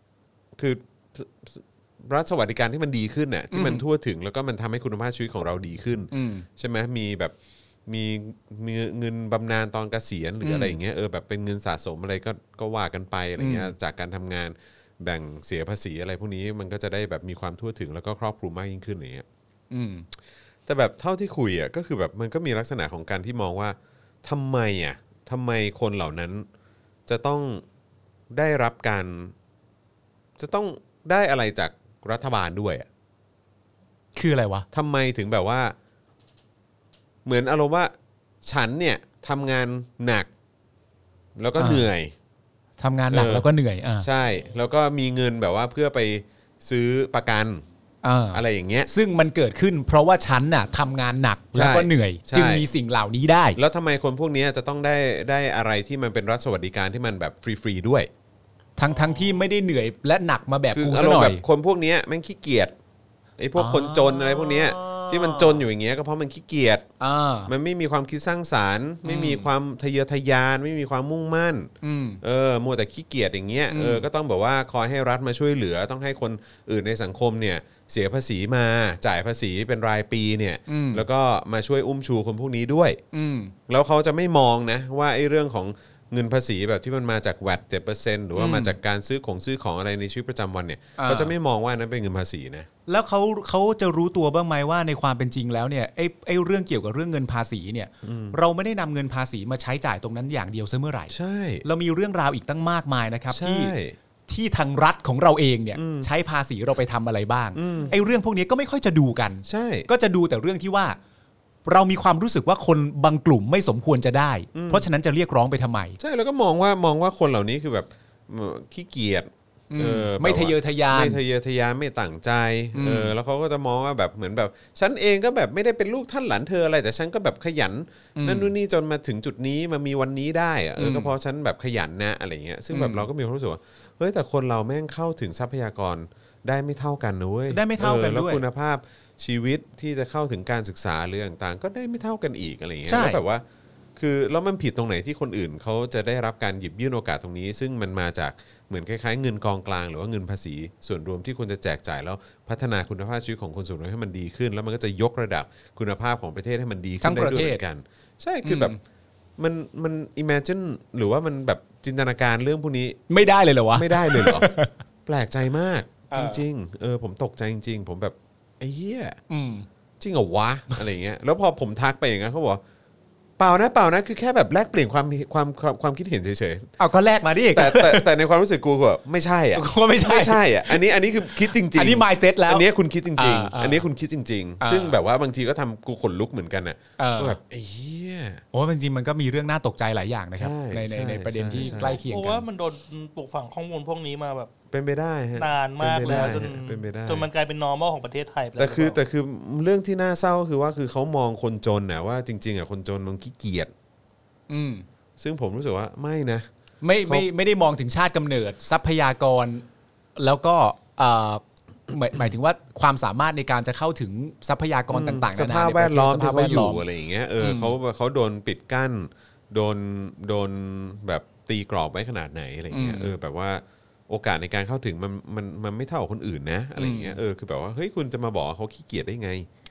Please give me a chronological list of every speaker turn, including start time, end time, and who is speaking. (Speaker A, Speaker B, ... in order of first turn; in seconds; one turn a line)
Speaker A: 0.6-7.3
Speaker B: 3.5-3.8
Speaker B: 6.1-6.5
Speaker A: 7.8-19.2
Speaker B: 10.4-10.8
Speaker B: 13.4-13.7
Speaker B: 19.7-20.1
Speaker A: 20.6-26.5
Speaker A: 27.1-27.6
Speaker A: 28.3-29.3
Speaker A: 30.4-32.9
Speaker B: 34.1-34.7
Speaker A: 34.7-35.7
Speaker A: 37.2-40.3
Speaker A: 41.4-42.1
Speaker B: 41.6-41.9
Speaker B: 42.8-44.1
Speaker A: 43.1-43.5
Speaker A: 44.0-47.6
Speaker B: 48.0-53.6
Speaker A: 48.3-48.9
Speaker A: 51.5-52.7
Speaker A: 53.5-58.1
Speaker B: 58.8-61.4
Speaker A: 60.7-62.7
Speaker A: 63.4-66.8
Speaker B: 63.5-65.6
Speaker B: 67.0-67.5
Speaker A: 67.5-71.7
Speaker B: 69.0-69.5
Speaker B: 71.8-72.2
Speaker A: 72.2-83.0
Speaker B: 73.7-74.0
Speaker B: 80.7-81.0
Speaker B: 83.1-83.5
Speaker A: 83.7-92.7
Speaker B: 88.3-88.7
Speaker B: 91.0-91.3
Speaker B: 92.9-103.7
Speaker A: 98.0-98.4
Speaker A: 101.1-101.6
Speaker A: 103.3-104.0
Speaker B: 104.3-111.0
Speaker A: 105.7-106.1
Speaker A: 107.5-107.9
Speaker A: 109.4-109.9
Speaker B: 111.6-116.0
Speaker A: 114.5-114.8
Speaker A: 116.0-143.4
Speaker B: 119.7-121.2
Speaker B: 122.7-123.1
Speaker B: 128.2-128.5
Speaker B: 130.8-131.1
Speaker B: 132.7-133.1
Speaker B: 137.5-138.4
Speaker B: 142.9-143.2
Speaker A: 143.9-158.7
Speaker B: 157.0-157.6
Speaker B: 158.4-158.8
Speaker A: 159.4-163.0
Speaker B: 163.1-164.7
Speaker A: 163.7-164.5
Speaker A: 165.1-169.2
Speaker B: 166.1-166.4
Speaker B: 169.3-169.7
Speaker A: 170.0-172.6
Speaker A: 173.4-176.7
Speaker B: 176.8-178.1
Speaker A: 177.5-188.4
Speaker B: 179.5-183.8
Speaker B: 184.6-185.0
Speaker B: 187.0-187.4
Speaker B: 188.5-192.4
Speaker A: 190.3-192.0
Speaker C: 191.6-194.5
Speaker A: 194.7-197.3
Speaker C: 195.3-199.0
Speaker B: 196.0-196.4
Speaker A: 198.6-203.7
Speaker B: 204.5-204.8
Speaker A: 205.2-206.5
Speaker B: 206.8-209.7
Speaker B: 210.2-216.8
Speaker A: 214.9-229.5
Speaker B: 217.4-217.7
Speaker B: 222.7-223.1
Speaker B: 226.8-227.2